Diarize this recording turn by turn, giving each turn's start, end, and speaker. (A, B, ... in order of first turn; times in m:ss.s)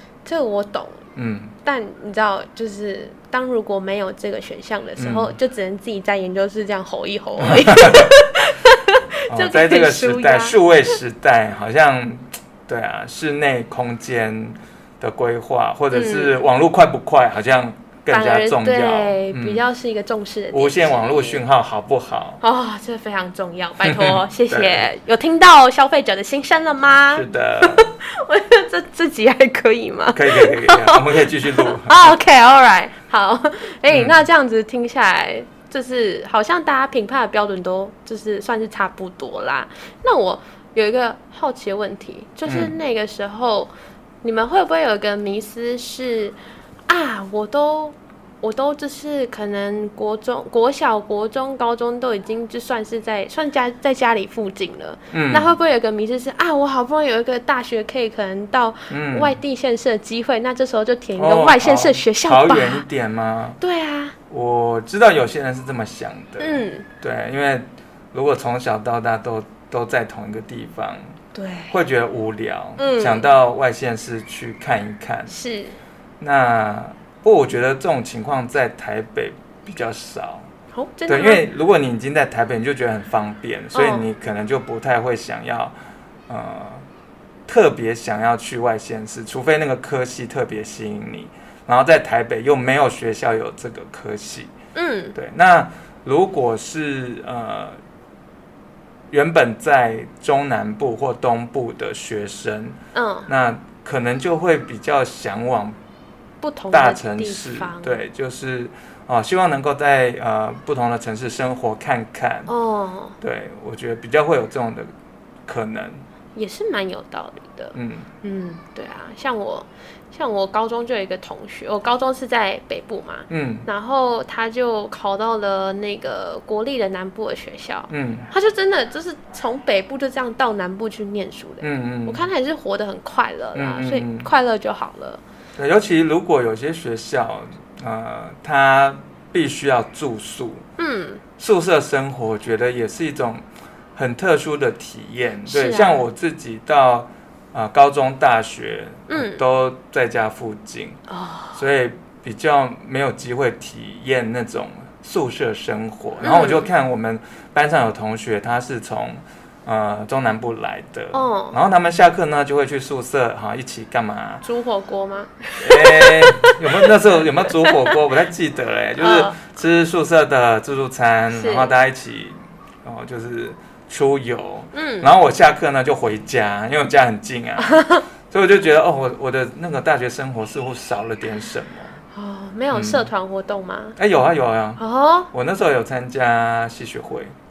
0:00.2-0:01.0 A
0:01.1-0:01.5 B
0:01.6-0:10.6 A
0:05.0-0:05.4 B
0:07.4-0:08.1 B
0:09.3-0:19.6 B
0:15.9-0:16.4 A
0:18.1-0:21.4 A
0:20.5-0:22.4 B
0:22.4-0:46.4 A
0:23.8-0:24.9 B
0:27.1-0:27.9 B
0:30.1-0:32.2 B
0:33.9-0:34.2 B
0:42.5-0:42.7 B
0:46.9-1:02.8 A
0:55.1-0:55.5 B
0:58.9-0:59.4 B
1:01.2-1:03.6 B
1:03.6-1:04.1 A
1:04.3-1:11.0 B
1:06.4-1:06.8 A
1:11.3-1:11.7 A
1:11.7-1:15.3 B
1:12.8-1:13.3 A
1:15.3-1:15.8 A
1:16.2-1:20.5 B
1:20.7-1:21.4 A
1:21.1-1:25.8 B
1:23.7-1:24.1 A
1:26.3-1:26.8 B
1:27.5-1:34.5 B
1:34.7-1:35.1 A
1:35.1-1:37.8 B
1:39.1-1:45.8 B
1:42.9-1:43.3 A
1:46.4-1:48.0 A
1:46.7-1:52.5 B
1:52.5-1:53.2 A
1:53.2-1:54.9 B
1:55.4-1:56.0 B
1:56.3-2:15.2 A
1:57.7-1:58.1 B
2:03.3-2:03.7 B
2:07.9-2:08.3 B
2:11.6-2:12.2 B
2:13.5-2:14.3 B
2:15.6-2:20.6 B
2:20.8-2:21.2 A
2:21.4-2:23.4 B
2:23.9-2:31.0 B
2:25.5-2:26.0 A
2:29.1-2:29.4 A
2:31.1-2:31.6 A
2:31.5-2:44.4 B
2:36.2-2:36.7 A
2:41.1-2:41.6 A
2:44.4-2:46.9 A
2:45.6-3:02.0 B
2:47.6-2:47.9 A
2:49.0-2:49.4 A
2:51.3-2:51.7 A
2:54.7-2:55.1 A
2:57.7-2:58.0 A
3:02.1-3:04.0 A
3:02.7-3:03.1 B
3:04.0-3:07.3 B
3:04.8-3:05.3 A